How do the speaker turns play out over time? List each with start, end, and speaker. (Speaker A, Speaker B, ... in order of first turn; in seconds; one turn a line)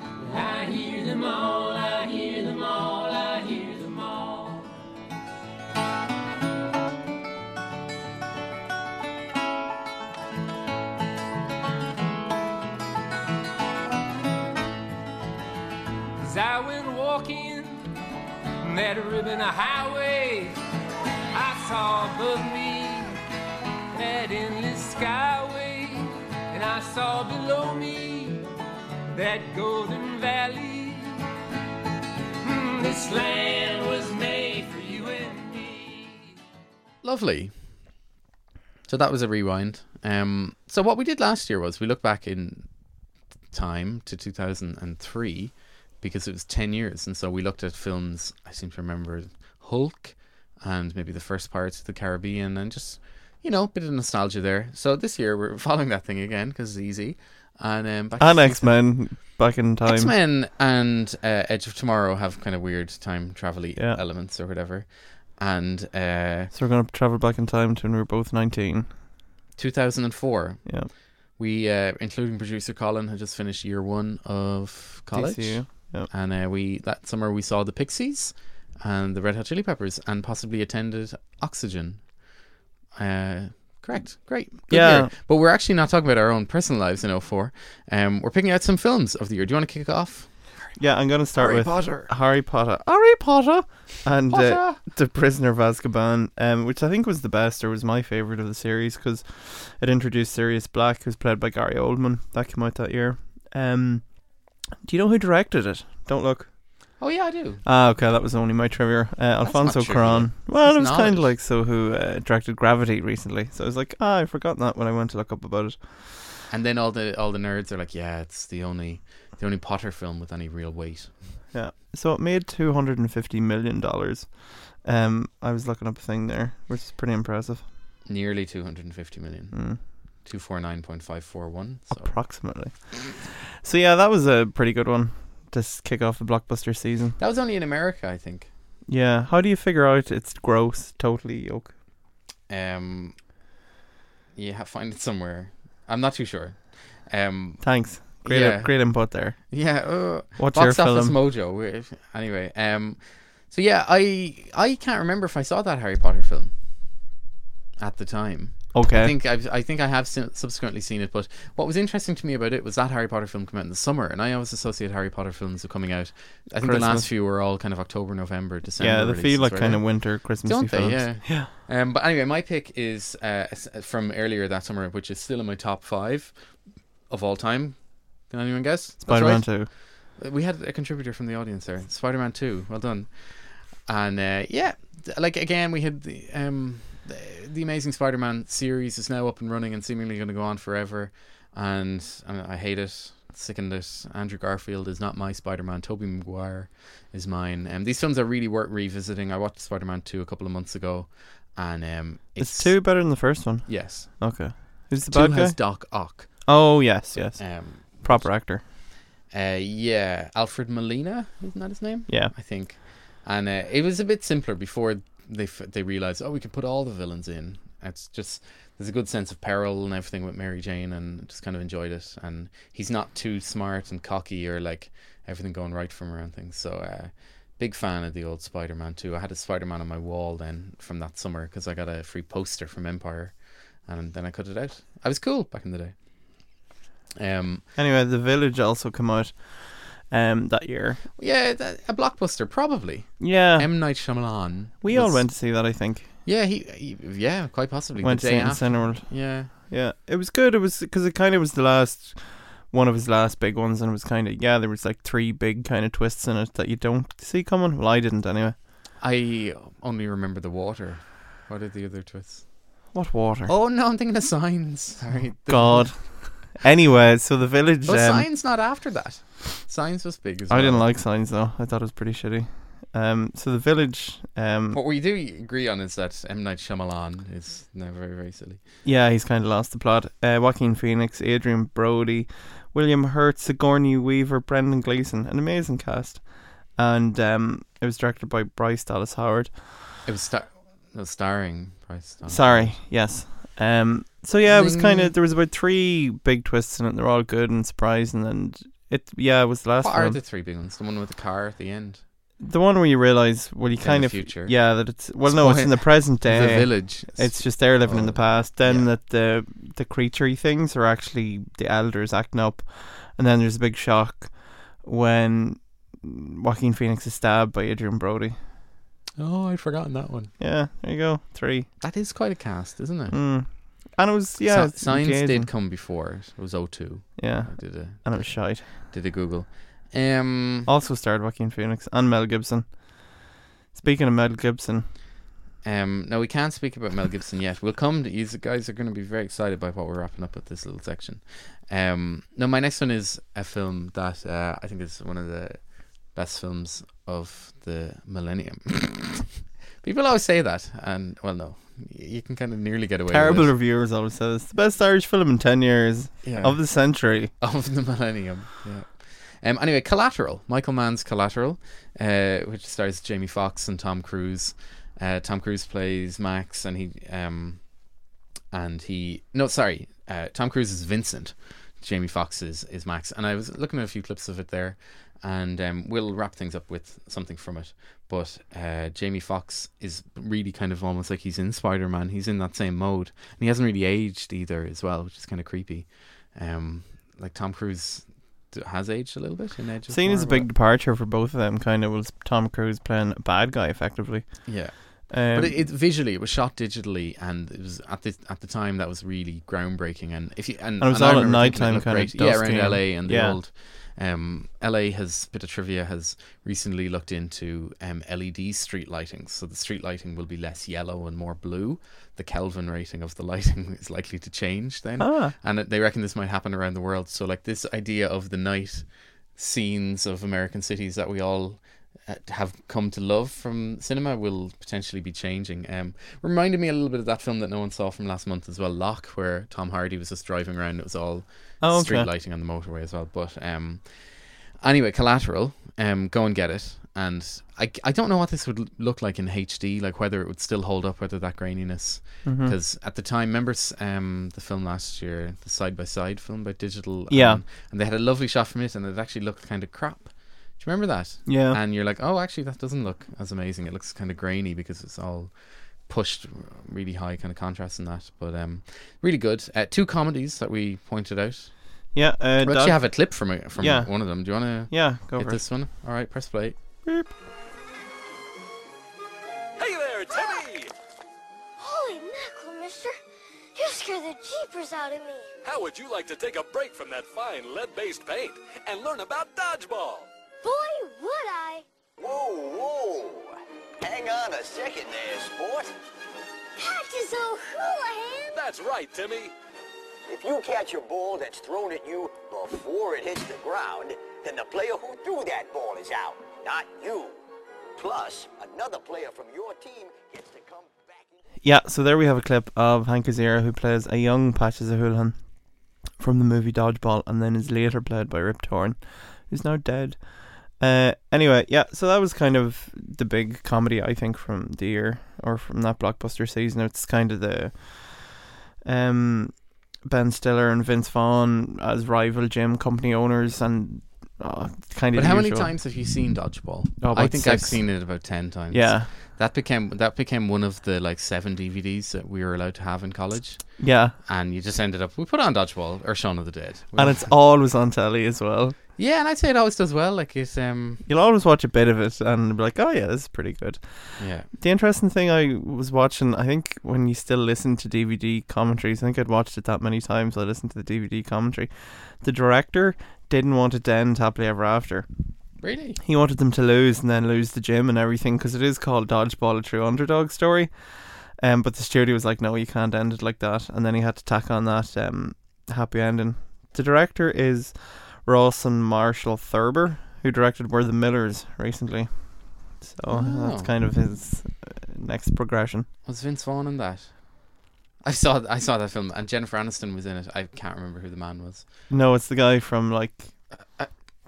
Speaker A: 0.3-4.7
Speaker A: 16.2-17.8
Speaker A: 18.6-20.6
Speaker A: 21.3-23.1
Speaker A: 23.9-28.4
Speaker A: 29.1-31.2
Speaker A: 32.4-36.3
Speaker B: 37.0-37.5
Speaker B: 38.9-42.7
Speaker B: 43.5-58.9
Speaker C: 58.2-60.1
Speaker B: 59.8-66.5
Speaker C: 66.5-68.9
Speaker B: 69.5-82.1
Speaker C: 75.1-76.1
Speaker B: 82.9-90.7
Speaker C: 84.7-85.1
Speaker C: 90.8-104.2
Speaker B: 91.3-92.1
Speaker B: 94.3-94.8
Speaker C: 104.8-107.0
Speaker B: 107.0-107.6
Speaker C: 107.6-116.1
Speaker B: 109.4-111.4
Speaker B: 116.5-121.1
Speaker C: 121.5-127.6
Speaker B: 128.1-132.2
Speaker C: 129.5-129.8
Speaker C: 131.9-132.9
Speaker C: 133.6-137.2
Speaker B: 137.2-138.5
Speaker C: 138.9-141.8
Speaker B: 142.5-143.2
Speaker B: 144.3-156.5
Speaker C: 147.6-149.8
Speaker C: 150.4-151.1
Speaker B: 157.8-176.4
Speaker C: 158.7-159.1
Speaker C: 166.6-167.1
Speaker C: 168.8-171.5
Speaker B: 177.1-203.0
Speaker C: 179.0-179.7
Speaker C: 202.4-208.6
Speaker B: 203.6-206.5
Speaker B: 207.1-235.9
Speaker C: 212.1-212.3
Speaker B: 237.2-237.7
Speaker C: 237.8-241.0
Speaker B: 241.2-245.7
Speaker C: 243.2-244.3
Speaker C: 244.8-246.1
Speaker B: 246.2-249.5
Speaker C: 248.0-258.6
Speaker B: 259.0-262.7
Speaker C: 262.9-263.5
Speaker B: 263.5-266.0
Speaker C: 265.5-268.3
Speaker B: 267.9-270.9
Speaker C: 270.5-274.8
Speaker B: 274.7-278.6
Speaker C: 278.8-289.8
Speaker B: 290.0-292.8
Speaker C: 292.3-300.2
Speaker B: 294.4-295.1
Speaker B: 299.8-302.0
Speaker C: 302.4-318.4
Speaker B: 303.8-308.9
Speaker B: 319.2-320.3
Speaker C: 320.4-321.7
Speaker B: 321.8-323.2
Speaker C: 323.1-325.5
Speaker B: 324.4-330.7
Speaker C: 327.2-328.8
Speaker C: 330.6-334.9
Speaker B: 335.6-353.5
Speaker C: 353.1-357.3
Speaker B: 356.2-356.6
Speaker B: 357.4-367.6
Speaker B: 368.5-390.5
Speaker C: 389.9-395.7
Speaker B: 394.4-455.3
Speaker C: 400.8-403.4
Speaker C: 415.0-415.3
Speaker C: 431.6-432.1
Speaker C: 442.2-442.6
Speaker C: 447.1-447.4
Speaker C: 451.3-451.6
Speaker B: 455.8-461.6
Speaker C: 461.9-465.4
Speaker B: 462.4-466.6
Speaker C: 466.8-467.1
Speaker D: 469.6-470.7
Speaker E: 471.6-473.0
Speaker E: 473.6-475.3
Speaker D: 475.4-480.1
Speaker E: 480.4-481.6
Speaker F: 482.0-485.7
Speaker E: 486.6-488.4
Speaker D: 488.3-489.3
Speaker F: 490.1-497.2
Speaker F: 497.8-501.1
Speaker C: 501.4-505.2
Speaker C: 506.0-525.5
Speaker B: 524.9-537.1
Speaker C: 526.8-528.9
Speaker C: 533.6-534.0
Speaker C: 536.8-538.6
Speaker B: 538.8-540.8
Speaker C: 540.9-554.9
Speaker B: 544.0-544.3
Speaker B: 555.4-555.8
Speaker C: 555.8-575.7
Speaker B: 572.9-573.5
Speaker B: 575.8-581.5
Speaker C: 581.7-583.1